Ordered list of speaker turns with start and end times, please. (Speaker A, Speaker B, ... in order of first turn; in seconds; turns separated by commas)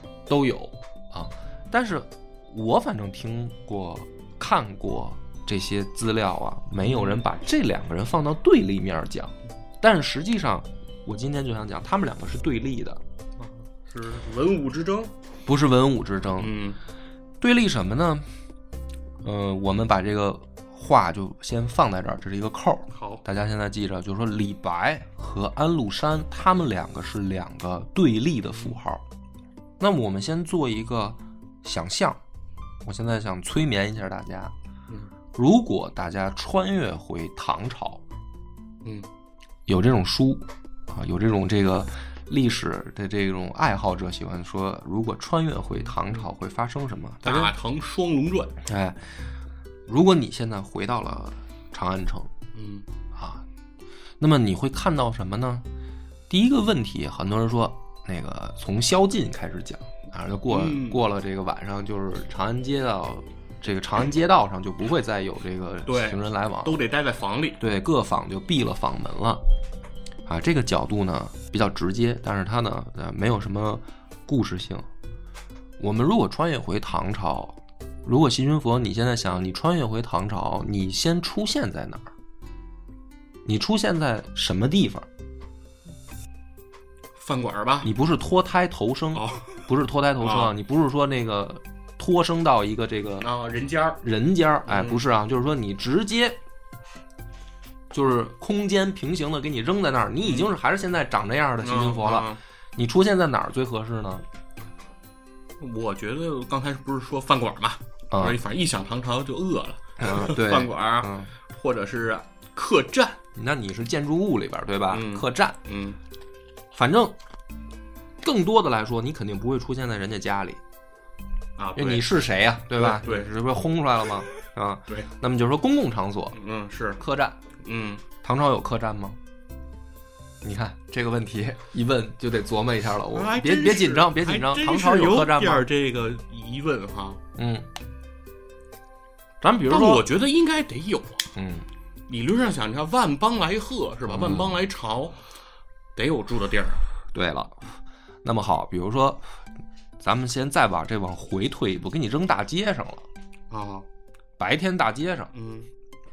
Speaker A: 0.3-13.0, Speaker B: 6.8-7.2, Speaker B: 13.4-15.1, Speaker A: 15.4-16.5, Speaker B: 16.4-16.8, Speaker A: 17.4-18.2, Speaker A: 19.2-29.0, Speaker B: 22.9-23.2, Speaker A: 29.8-32.2, Speaker A: 32.8-34.5, Speaker A: 35.4-38.0, Speaker A: 39.7-47.5, Speaker B: 45.8-46.2, Speaker B: 47.2-48.6, Speaker A: 48.6-49.1, Speaker A: 49.9-52.3, Speaker B: 52.5-52.9, Speaker A: 53.1-53.4, Speaker A: 54.2-55.7, Speaker A: 56.3-66.8, Speaker B: 60.5-61.0, Speaker B: 65.9-67.6, Speaker A: 67.6-69.4, Speaker A: 70.3-74.9, Speaker A: 75.8-82.1, Speaker A: 83.5-85.1, Speaker B: 87.2-87.9, Speaker A: 87.8-93.3, Speaker B: 89.1-89.7, Speaker B: 90.2-90.5, Speaker B: 93.2-94.0, Speaker A: 94.0-96.4, Speaker B: 94.7-95.0, Speaker A: 97.9-104.2, Speaker B: 100.2-100.5, Speaker B: 101.6-102.4, Speaker B: 105.6-113.2, Speaker A: 108.1-108.4, Speaker A: 110.0-111.3, Speaker A: 113.3-115.6, Speaker B: 114.9-116.0, Speaker A: 116.7-117.2, Speaker A: 118.2-120.6, Speaker B: 121.6-123.3, Speaker A: 121.8-126.4, Speaker B: 126.3-127.0, Speaker A: 127.0-127.4, Speaker B: 127.6-128.0, Speaker A: 128.2-129.2, Speaker A: 130.4-135.7, Speaker B: 133.1-137.2, Speaker A: 137.4-137.7, Speaker A: 139.4-140.1, Speaker B: 139.7-141.3, Speaker A: 141.4-141.7, Speaker B: 142.1-145.2, Speaker A: 144.1-144.6, Speaker B: 145.9-146.8, Speaker A: 147.1-149.2, Speaker A: 150.0-153.1, Speaker B: 153.5-153.9, Speaker A: 154.4-155.3, Speaker B: 155.3-155.7